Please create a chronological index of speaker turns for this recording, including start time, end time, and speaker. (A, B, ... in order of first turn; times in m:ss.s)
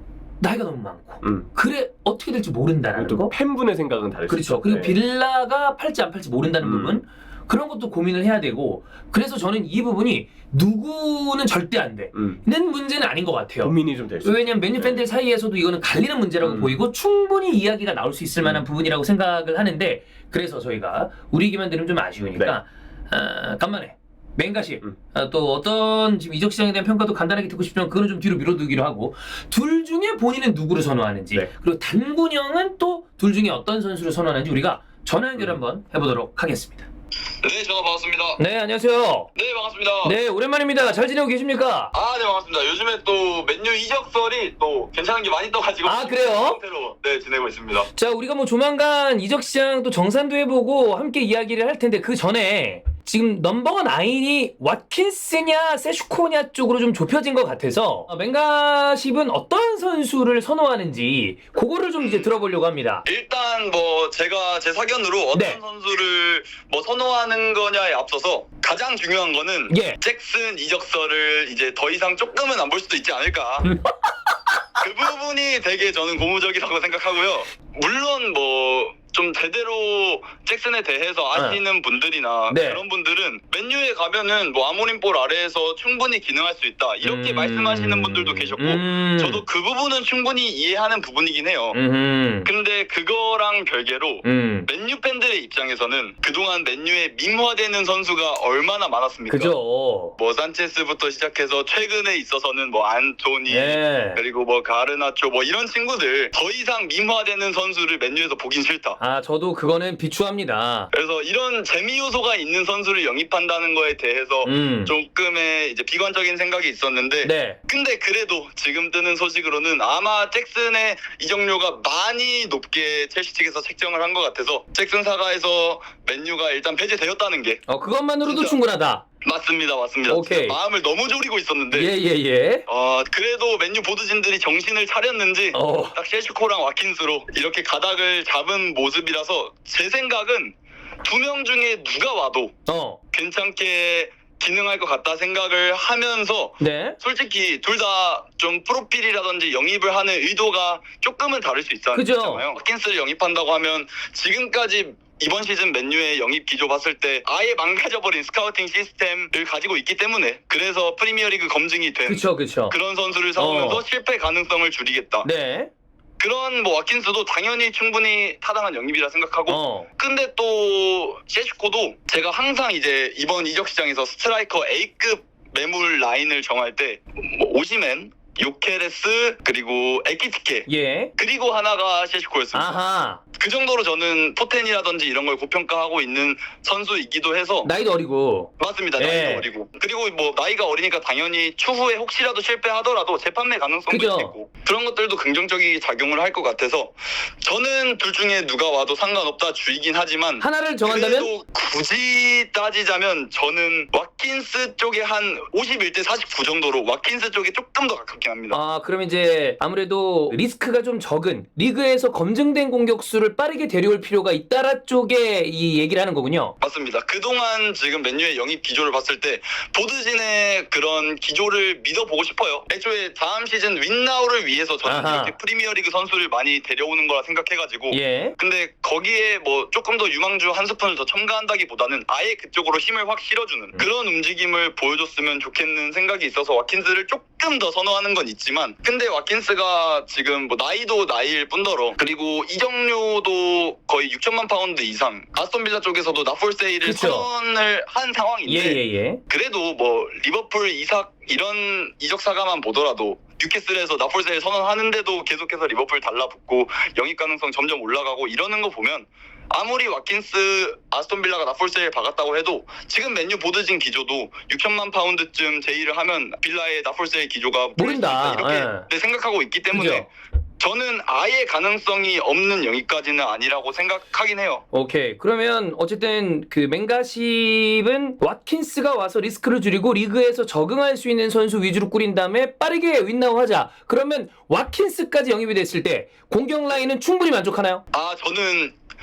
0:00.4-0:03.3 A
0:01.2-0:01.5 B
0:03.0-0:05.0 B
0:04.3-0:36.9 A
0:06.6-0:07.0 B
0:12.1-0:12.4 B
0:13.6-0:15.0 B
0:16.4-0:16.8 B
0:37.4-0:38.4 C
0:38.4-0:39.3 A
0:39.4-0:40.2 C
0:40.0-0:41.9 A
0:41.9-0:47.9 C
0:45.8-0:46.6 A
0:48.0-1:03.0 A
1:02.0-1:02.3 C
1:03.1-1:13.7 C
1:05.3-1:05.6 A
1:09.7-1:10.0 A
1:13.6-1:13.9 A
1:14.8-1:31.8 C
1:21.3-1:21.6 A
1:22.5-1:22.8 A
1:27.0-1:29.4 A
1:31.7-1:32.5 A
1:32.4-1:39.6 C
1:34.2-1:34.7 A
1:39.3-1:40.2 A
1:40.2-1:49.0 C
1:43.5-1:44.2 A
1:49.0-1:50.9 A
1:50.9-2:07.6 C
1:54.4-1:54.9 A
1:57.2-1:57.6 A
2:07.7-2:09.0 A
2:08.2-2:08.6 C
2:09.2-2:11.9 C
2:10.1-2:10.6 A
2:11.7-2:12.6 A
2:12.7-2:22.5 C
2:15.5-2:16.0 A
2:22.7-2:23.0 A
2:23.1-2:45.3 C
2:26.6-2:27.0 A
2:31.9-2:32.4 A
2:42.1-2:42.8 A
2:43.4-2:43.8 A
2:45.2-2:45.7 A
2:46.2-3:02.8 C
2:49.5-2:49.9 A
3:00.7-3:01.1 A
3:02.5-3:03.2 A
3:03.4-3:07.7 C
3:07.6-3:09.5 A
3:08.6-3:28.6 C
3:13.9-3:14.3 A
3:20.4-3:21.3 A
3:28.5-3:36.5 A
3:36.6-4:34.6 C
3:44.8-3:45.4 A
3:47.9-3:48.4 A
4:06.8-4:07.3 A
4:08.5-4:09.2 A
4:27.8-4:28.9 A
4:29.7-4:30.1 A
4:34.7-4:47.8 A
4:47.9-4:48.8 C